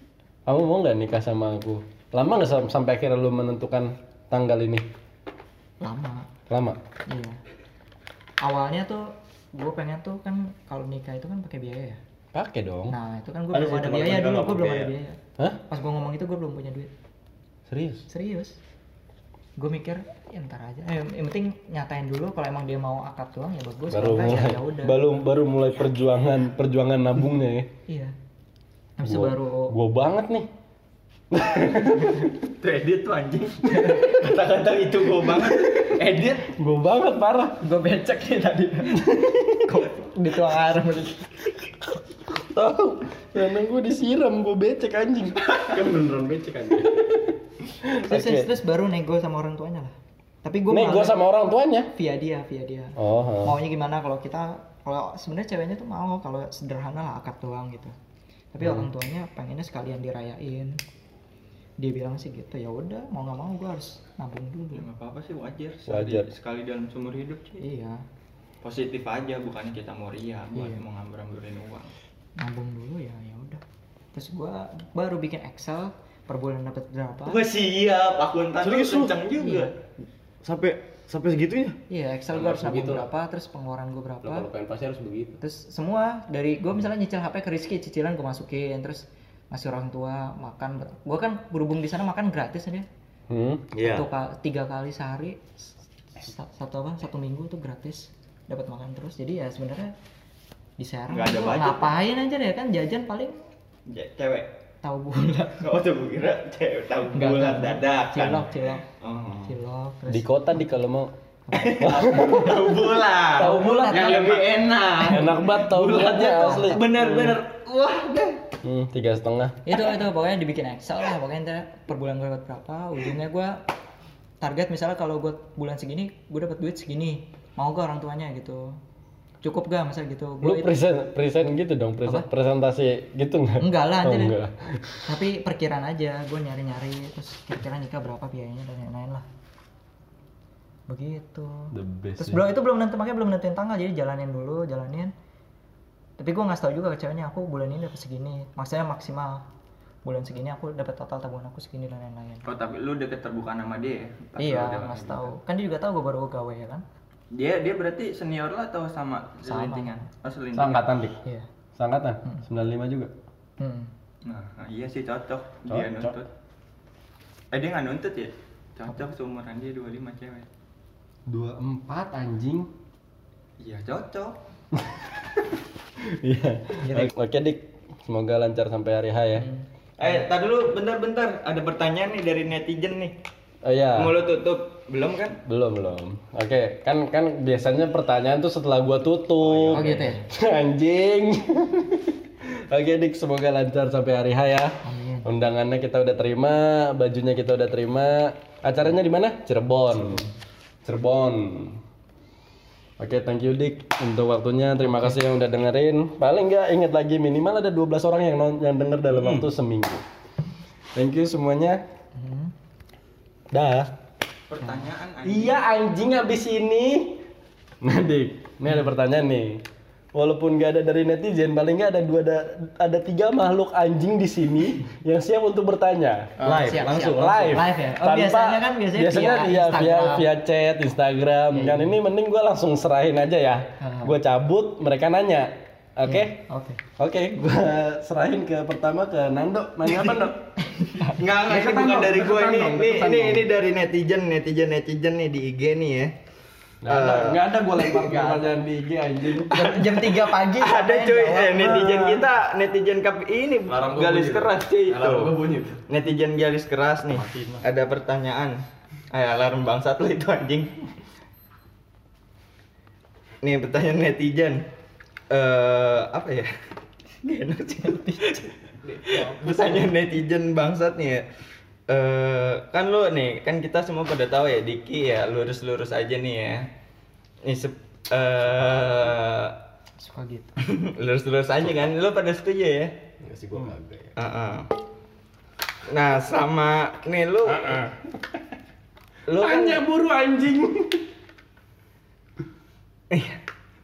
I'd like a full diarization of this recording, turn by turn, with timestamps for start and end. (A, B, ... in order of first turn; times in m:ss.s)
0:00.5-0:04.9 A
0:05.8-0:06.3 B
0:06.5-0:06.8 A
0:07.1-0:07.4 B
0:08.4-0:12.0 B
0:12.3-0:13.0 A
0:12.9-0:15.2 B
0:13.5-0:14.9 C
0:15.7-0:16.9 B
0:17.7-0:18.0 A
0:18.1-0:18.6 B
0:19.6-0:25.0 B
0:23.9-0:27.7 A
0:27.9-0:28.1 B
0:29.0-0:29.7 B
0:29.0-0:30.5 A
0:31.3-0:32.3 A
0:32.5-0:36.5 D
0:33.8-0:34.1 B
0:36.6-0:37.6 A
0:37.6-0:39.1 B
0:39.0-0:39.8 A
0:39.6-0:41.3 B
0:41.8-0:45.8 A
0:45.7-0:46.9 E
0:46.8-0:48.5 A
0:48.0-0:51.2 B
0:50.7-0:51.9 A
0:51.9-0:58.0 B
0:53.0-0:53.6 A
0:58.5-1:00.8 B
0:58.6-0:58.9 A
1:01.8-1:04.9 B
1:04.7-1:07.6 D
1:05.9-1:06.3 A
1:07.6-1:08.0 B
1:08.6-1:11.9 D
1:10.5-1:10.8 B
1:12.4-1:13.6 B
1:14.1-1:17.4 B
1:17.2-1:19.7 D
1:18.6-1:19.1 A
1:19.4-1:19.7 B
1:20.4-1:21.8 C
1:21.9-1:24.5 B
1:22.3-1:23.1 E
1:24.2-1:25.4 E
1:25.4-1:32.9 B
1:33.3-1:33.7 A
1:33.8-1:34.1 C
1:33.8-1:35.4 B
1:36.2-1:39.9 B
1:40.8-1:43.4 B
1:41.1-1:42.0 D
1:43.9-1:44.5 D
1:44.8-1:45.7 B
1:45.6-1:49.5 D
1:47.1-1:48.9 B
1:49.4-1:50.7 B
1:50.1-1:51.1 A
1:51.5-1:55.3 B
1:51.6-1:58.4 D
1:51.8-1:52.6 A
1:53.4-1:57.4 A
1:56.4-1:56.8 B
1:58.6-1:59.6 A
1:59.6-2:03.6 B
2:04.4-2:08.8 B
2:09.4-2:10.8 B
2:10.4-2:15.1 A
2:13.6-2:14.4 B
2:15.1-2:19.2 B
2:20.9-2:25.1 B
2:21.7-2:22.5 A
2:26.2-2:29.4 B
2:30.0-2:32.4 B
2:32.4-2:35.3 D
2:34.4-2:36.8 B
2:37.3-2:40.9 D
2:39.5-2:40.1 B
2:40.5-2:41.2 A
2:41.8-2:43.1 A
2:43.6-2:43.9 B
2:44.2-2:46.3 D
2:45.7-2:46.2 A
2:47.5-2:50.5 D
2:51.3-2:52.7 A
2:53.6-2:54.4 D
2:54.8-2:55.1 A
2:56.0-2:59.5 A
2:56.8-2:57.1 B
2:59.4-3:00.3 B
3:00.0-3:03.1 D
3:03.6-3:04.2 A
3:04.0-3:05.4 D
3:05.5-3:20.2 A
3:09.4-3:10.2 D
3:09.7-3:10.3 B
3:14.8-3:15.3 B
3:20.8-3:21.8 A
3:23.0-3:30.0 A
3:31.0-3:31.8 A
3:32.2-3:32.5 B
3:33.5-3:33.9 A
3:34.5-3:35.6 D
3:35.2-3:37.2 A
3:37.8-3:39.6 A
3:40.1-3:46.3 A
3:46.4-3:47.6 C
3:46.4-3:50.3 B
3:47.0-3:56.4 A
3:51.5-3:52.0 B
3:53.8-3:54.2 B
3:56.0-3:56.8 B
3:57.0-4:00.5 A
4:00.7-4:03.5 B
4:01.0-4:06.1 D
4:06.8-4:09.8 A
4:06.8-4:08.4 D
4:09.5-4:12.1 B
4:09.5-4:15.3 D
4:11.8-4:12.2 A
4:13.7-4:15.8 E
4:15.9-4:20.7 D
4:17.1-4:17.6 C
4:23.4-4:24.6 D
4:25.3-4:26.5 D
4:27.2-4:31.2 D
4:31.9-4:36.7 D
4:37.4-4:39.6 D
4:40.0-4:40.6 B
4:40.6-4:42.9 D
4:43.2-4:44.1 E
4:44.2-4:44.7 D
4:45.9-4:47.9 D
4:47.5-4:47.9 A
4:49.3-4:49.8 D
4:49.4-4:51.1 A
4:53.1-4:53.4 D